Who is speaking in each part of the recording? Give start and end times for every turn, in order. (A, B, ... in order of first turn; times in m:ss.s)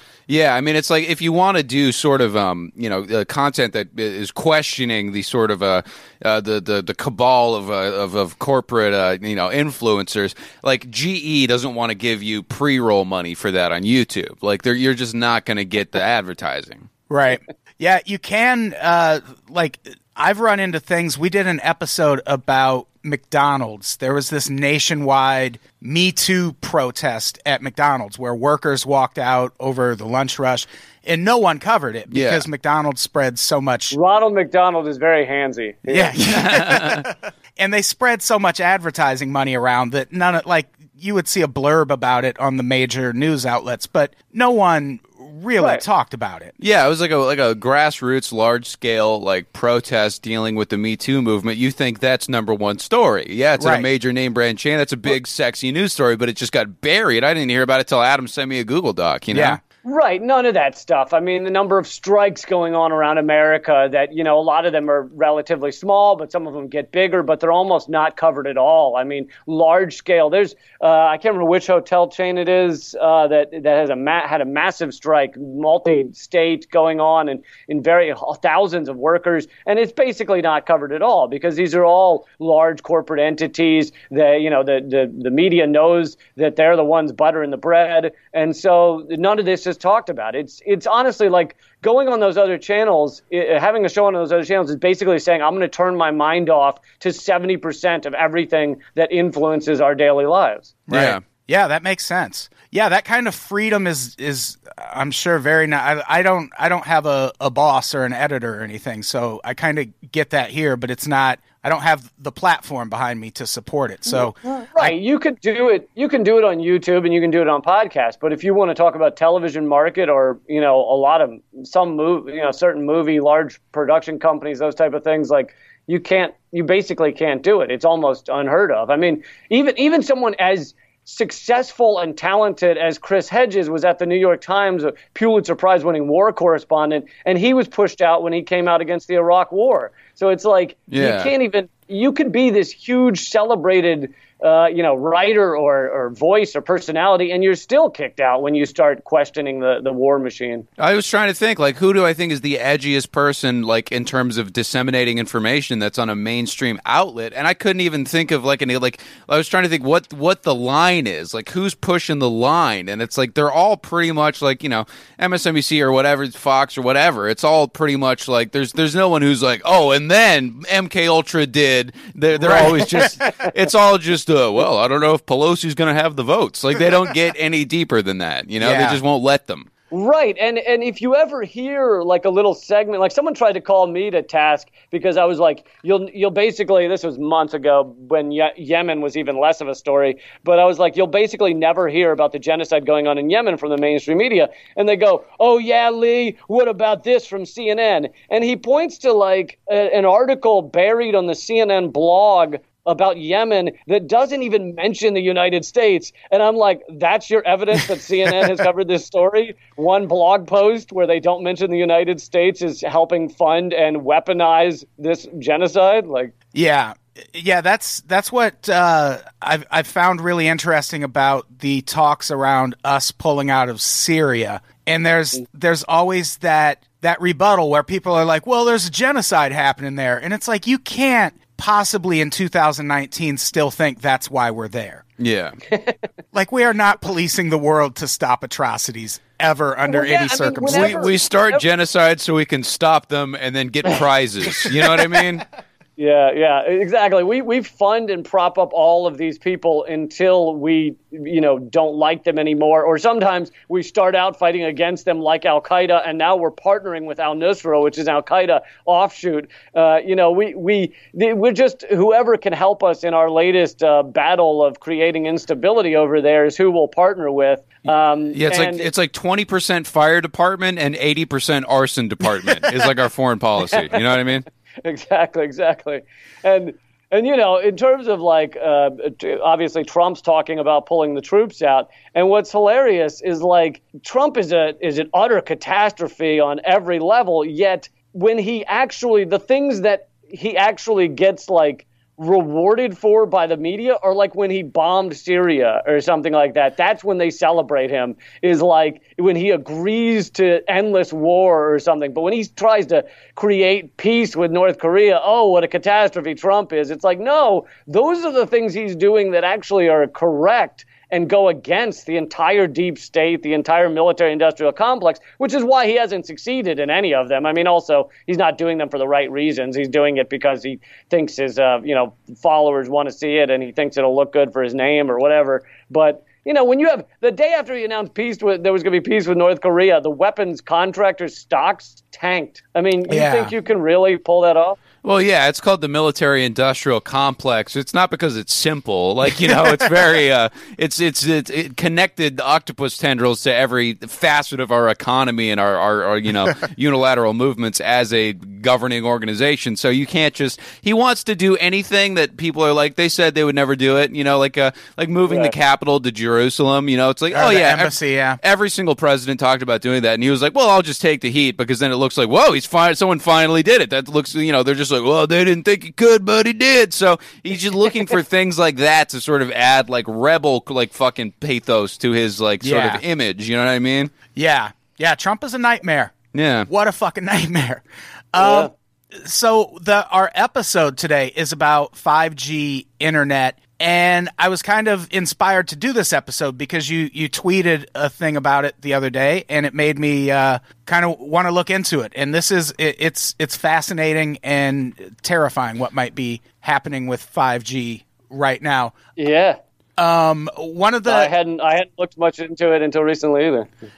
0:00.3-0:16.9 A
0:17.1-0:34.0 B
0:32.1-0:32.4 A
0:33.9-0:36.1 C
0:35.9-0:46.5 B
0:36.2-0:37.1 A
0:45.6-0:45.8 C
0:46.6-0:59.6 A
0:53.6-0:53.9 B
0:59.3-0:59.6 B
0:59.8-1:40.8 C
1:40.9-1:54.9 B
1:40.9-1:41.2 A
1:54.1-2:30.6 C
2:20.9-2:21.3 A
2:30.8-2:59.7 A
2:52.4-2:53.5 B
2:58.6-2:59.0 B
2:59.9-3:36.3 C
3:36.5-3:55.0 B
3:55.2-3:55.6 A
3:55.7-3:56.0 C
3:56.3-4:01.1 B
3:59.9-4:01.6 C
4:00.7-4:05.4 A
4:04.6-4:05.2 C
4:06.0-4:28.9 C
4:28.3-4:34.4 A
4:33.7-4:34.0 C
4:34.8-5:34.8 C
5:33.1-5:33.5 B
5:35.0-6:14.1 A
5:55.3-5:55.6 C
5:57.3-5:58.4 B
6:12.6-6:13.0 B
6:14.4-6:16.1 B
6:16.3-6:16.7 A
6:16.7-6:38.9 B
6:18.4-6:18.7 C
6:39.2-6:39.6 C
6:40.0-6:41.3 B
6:41.1-6:43.7 C